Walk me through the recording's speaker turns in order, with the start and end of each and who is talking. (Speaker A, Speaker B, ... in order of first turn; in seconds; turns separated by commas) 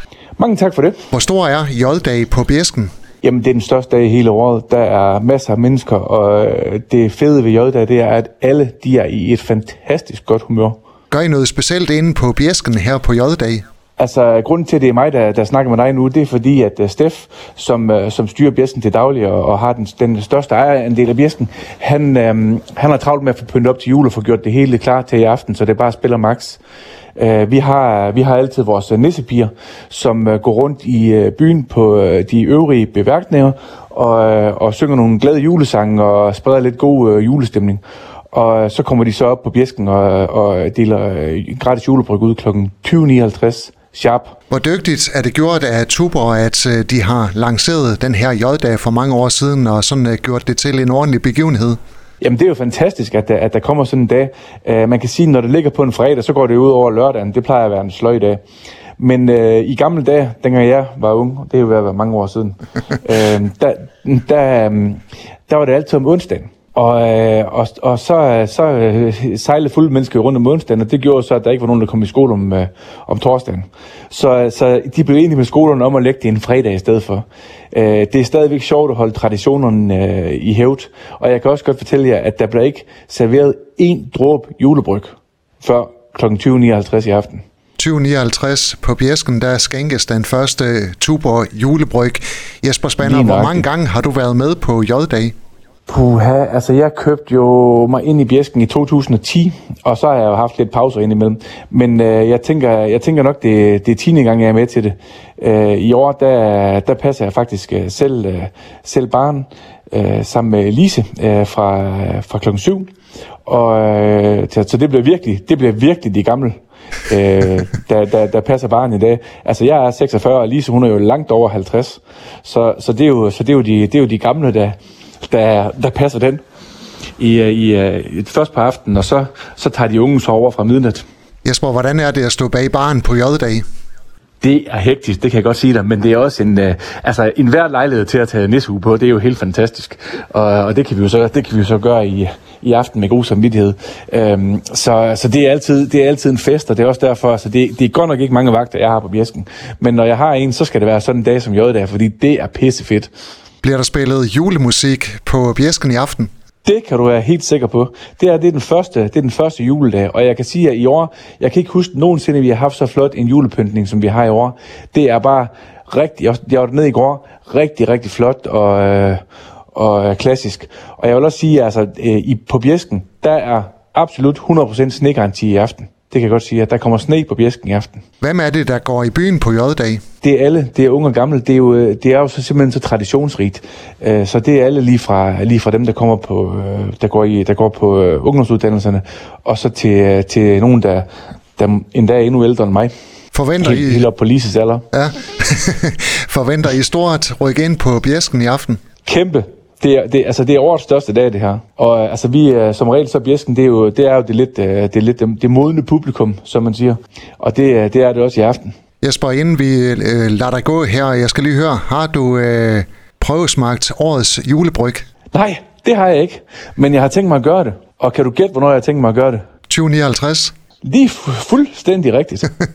Speaker A: 0.4-1.1, Speaker B: 1.1-2.9, Speaker A: 3.2-10.8, Speaker B: 11.1-13.6, Speaker A: 14.0-26.6, Speaker A: 27.1-44.4, Speaker B: 44.5-51.8, Speaker A: 52.2-58.4, Speaker A: 59.0-87.4, Speaker B: 87.8-95.3, Speaker A: 93.0-93.6, Speaker A: 95.9-112.9, Speaker A: 113.5-126.4, Speaker A: 127.2-131.0, Speaker B: 131.4-133.6, Speaker A: 134.4-153.1, Speaker B: 153.6-156.3, Speaker A: 156.6-169.2, Speaker A: 169.7-178.0, Speaker B: 178.2-180.0, Speaker A: 180.2-192.9, Speaker B: 193.3-194.1, Speaker A: 193.6-194.9, Speaker B: 194.9-198.8, Speaker A: 199.1-208.7, Speaker B: 209.0-215.1, Speaker A: 215.3-219.4, Speaker B: 219.7-220.5, Speaker A: 220.8-222.5